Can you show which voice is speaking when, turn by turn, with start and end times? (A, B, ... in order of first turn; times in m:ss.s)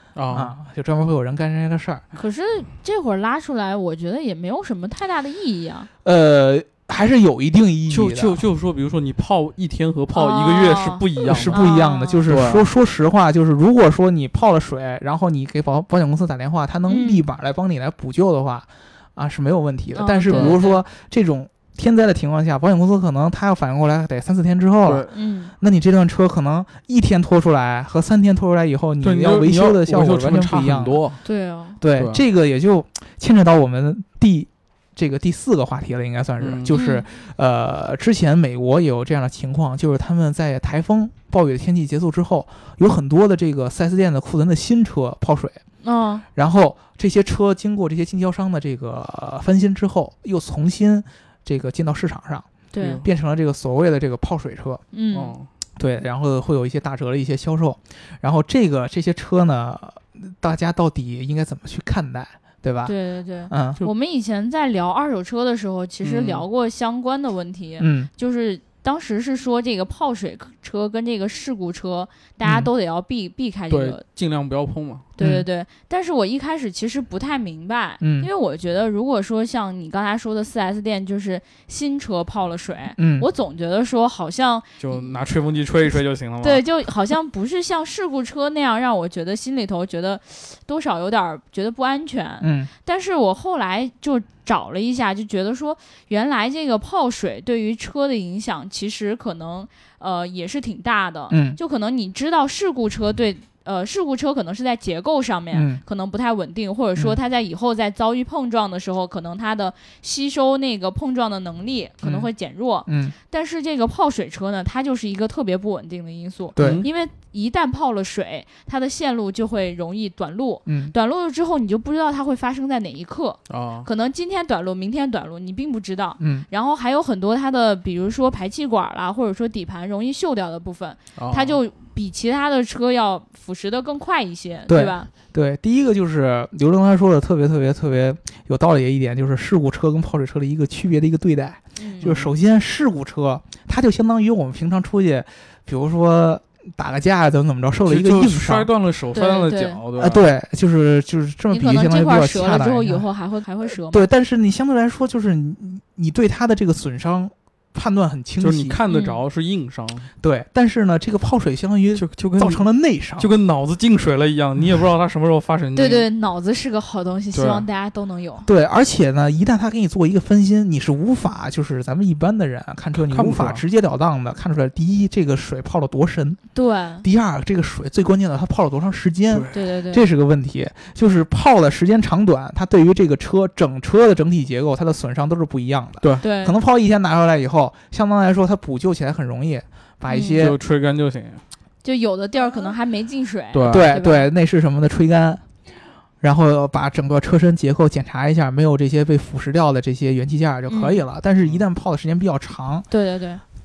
0:00.2-0:00.5 A
0:00.3-0:02.0 B
0:02.1-0:05.9 C
0:06.0-0:08.4 B
0:07.9-0:11.6 A
0:10.1-0:12.2 C
0:11.2-0:25.1 B
0:12.3-0:12.6 A
0:16.9-0:17.2 C
0:19.9-0:20.8 C
0:20.3-0:20.6 A
0:24.8-0:25.1 A
0:25.1-0:25.5 C
0:25.6-0:31.0 B
0:29.0-0:31.2 A
0:31.2-0:31.8 C
0:31.8-0:45.6 B
0:32.0-0:32.2 A
0:36.4-0:36.7 A
0:36.7-0:37.0 C
0:45.8-0:46.2 C
0:46.3-0:52.5 B
0:52.7-0:53.0 C
0:53.0-0:54.8 B
0:54.9-0:55.4 C
0:55.1-0:55.5 A
0:55.8-1:02.9 B
1:02.8-1:14.0 C
1:03.5-1:03.8 B
1:06.0-1:06.4 A
1:07.8-1:08.1 B
1:12.4-1:12.7 B
1:13.7-1:15.1 A
1:15.2-1:25.1 C
1:15.2-1:15.4 B
1:18.0-1:18.3 B
1:23.0-1:23.3 B
1:24.8-1:26.6 A
1:26.4-2:15.1 C
1:32.4-1:32.7 B
1:41.3-1:41.6 B
1:45.5-1:45.8 B
1:52.0-1:52.3 B
1:52.9-1:53.1 B
1:56.6-1:56.8 B
1:56.6-1:56.8 A
2:00.6-2:00.9 B
2:03.5-2:03.9 A
2:06.2-2:06.5 B
2:11.2-2:11.6 A
2:14.7-2:28.7 B
2:21.8-2:22.1 C
2:22.0-2:22.3 A
2:27.9-2:30.2 A
2:29.1-2:29.8 C
2:30.0-2:33.0 B
2:31.5-2:34.0 C
2:33.7-2:38.8 B
2:38.4-2:40.1 A
2:38.9-2:39.2 C
2:40.2-2:43.3 B
2:41.9-2:42.6 A
2:43.2-2:46.1 A
2:45.8-2:48.4 C
2:47.3-2:47.6 A
2:48.4-2:56.4 B
2:53.1-2:53.6 A
2:56.5-2:57.0 C
2:57.0-3:10.6 B
2:59.5-3:00.0 C
3:06.2-3:06.6 C
3:10.1-3:10.4 C
3:10.4-3:11.4 A
3:11.8-3:14.3 C
3:13.5-3:13.8 A
3:13.7-3:15.4 B
3:16.2-3:22.9 B
3:20.7-3:21.0 C
3:22.9-3:23.4 C